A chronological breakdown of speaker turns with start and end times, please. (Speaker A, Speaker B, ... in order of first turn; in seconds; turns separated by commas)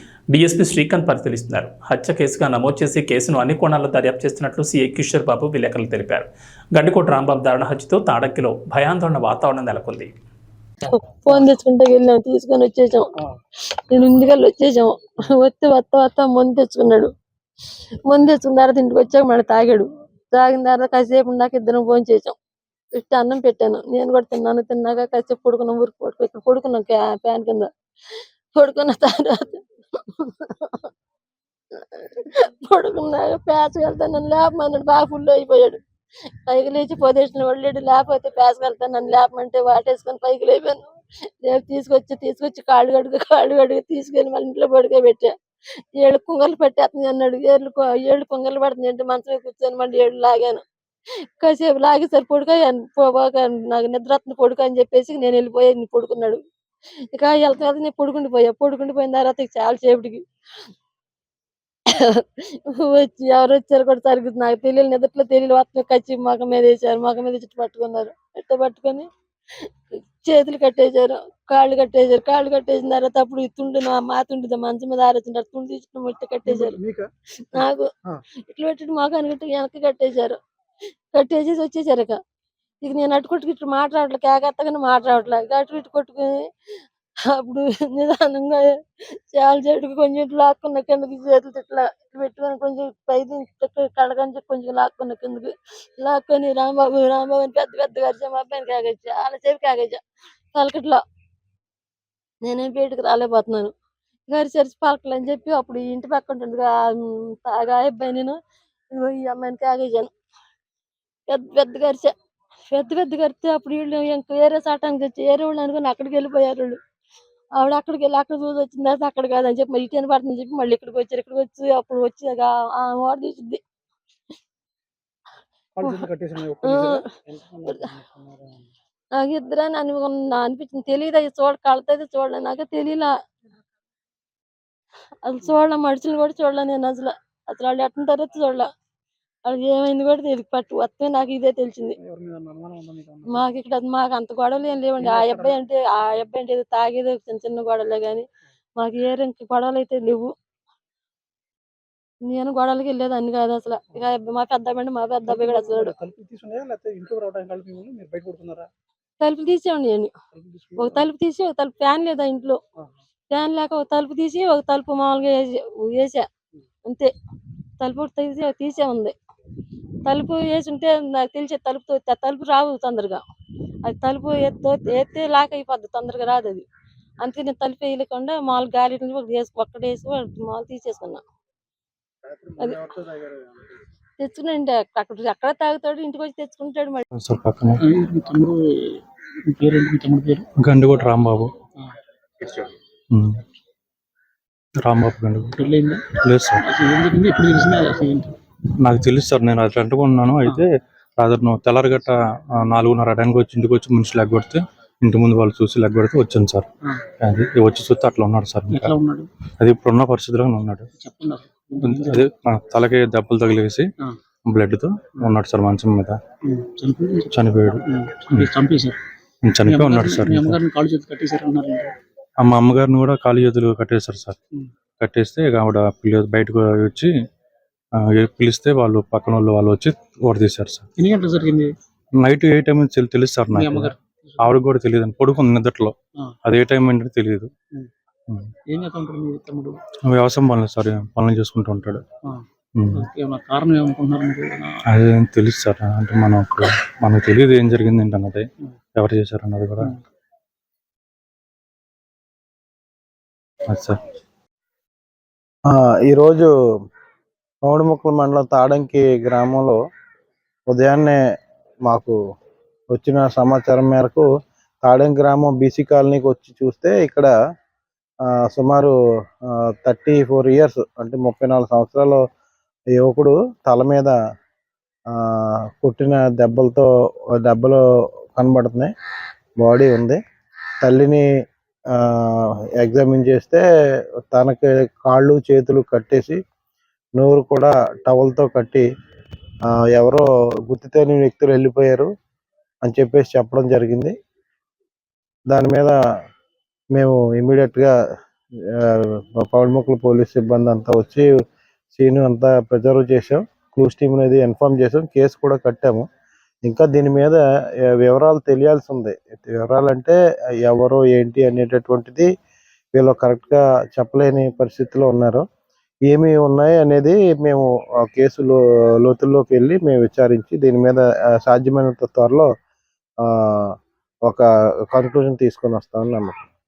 Speaker A: 0.3-10.1, Speaker B: 10.8-13.1, Speaker B: 13.9-17.1, Speaker B: 18.1-22.3, Speaker B: 22.9-27.7, Speaker B: 28.5-30.9, Speaker B: 31.9-35.8, Speaker B: 36.5-45.3, Speaker B: 45.9-50.6, Speaker B: 51.4-56.4, Speaker B: 57.1-60.2, Speaker B: 61.9-69.1, Speaker B: 70.2-76.8, Speaker C: 76.5-78.2, Speaker B: 77.4-80.4, Speaker B: 81.1-82.2, Speaker B: 82.8-86.5, Speaker B: 87.2-100.0, Speaker B: 100.5-101.0, Speaker B: 102.4-103.7, Speaker B: 104.3-108.3, Speaker B: 108.9-110.1, Speaker B: 111.3-112.1, Speaker B: 112.7-116.8, Speaker B: 117.6-123.6, Speaker C: 125.8-128.7, Speaker B: 126.6-127.0, Speaker B: 129.1-133.1, Speaker B: 135.2-138.7, Speaker B: 139.4-142.0, Speaker C: 142.0-143.4, Speaker B: 143.3-148.2, Speaker C: 145.0-145.6, Speaker B: 148.8-150.3, Speaker B: 152.2-155.9, Speaker C: 155.3-158.7, Speaker B: 159.2-160.1, Speaker C: 160.3-161.1, Speaker B: 160.8-162.6, Speaker B: 163.3-166.3, Speaker B: 166.8-167.1, Speaker B: 167.8-169.1, Speaker B: 170.0-173.2, Speaker B: 173.8-176.7, Speaker B: 177.2-181.2, Speaker D: 183.1-183.4, Speaker B: 184.2-187.0, Speaker E: 187.2-187.8, Speaker C: 187.8-190.5, Speaker E: 190.6-191.5, Speaker E: 193.1-193.4, Speaker E: 194.8-195.5, Speaker C: 195.6-198.3, Speaker E: 196.2-196.6, Speaker E: 198.8-206.7, Speaker E: 207.2-208.9, Speaker C: 208.7-209.3, Speaker E: 209.6-210.8, Speaker C: 211.0-212.3, Speaker E: 211.8-213.9, Speaker E: 214.4-216.2, Speaker C: 216.4-219.0, Speaker E: 217.3-218.5, Speaker E: 219.4-220.6, Speaker C: 219.6-221.9, Speaker E: 222.4-224.4, Speaker E: 225.0-227.1, Speaker E: 227.9-230.8, Speaker C: 231.0-231.7, Speaker E: 232.2-237.5, Speaker C: 233.5-234.6, Speaker C: 238.7-239.8, Speaker E: 240.0-242.1, Speaker C: 242.2-244.8, Speaker E: 242.8-243.1, Speaker E: 244.9-249.9, Speaker E: 253.7-254.0, Speaker D: 255.7-256.5, Speaker D: 257.6-259.8, Speaker D: 260.7-261.2, Speaker D: 261.8-262.1, Speaker D: 262.9-264.3, Speaker D: 264.8-267.3, Speaker D: 268.3-268.9, Speaker D: 269.5-272.2, Speaker D: 272.9-274.1, Speaker D: 275.1-277.8, Speaker D: 278.3-278.9, Speaker D: 279.6-280.2, Speaker D: 280.8-281.2, Speaker D: 281.9-283.6, Speaker D: 284.3-286.4, Speaker D: 287.2-288.9, Speaker D: 289.7-292.1, Speaker D: 292.8-294.1, Speaker D: 295.5-296.0, Speaker D: 296.9-297.9, Speaker D: 298.8-301.3, Speaker D: 301.9-306.0, Speaker D: 306.6-312.3, Speaker D: 312.9-315.4, Speaker D: 316.1-322.5, Speaker D: 323.2-323.7, Speaker D: 324.2-326.4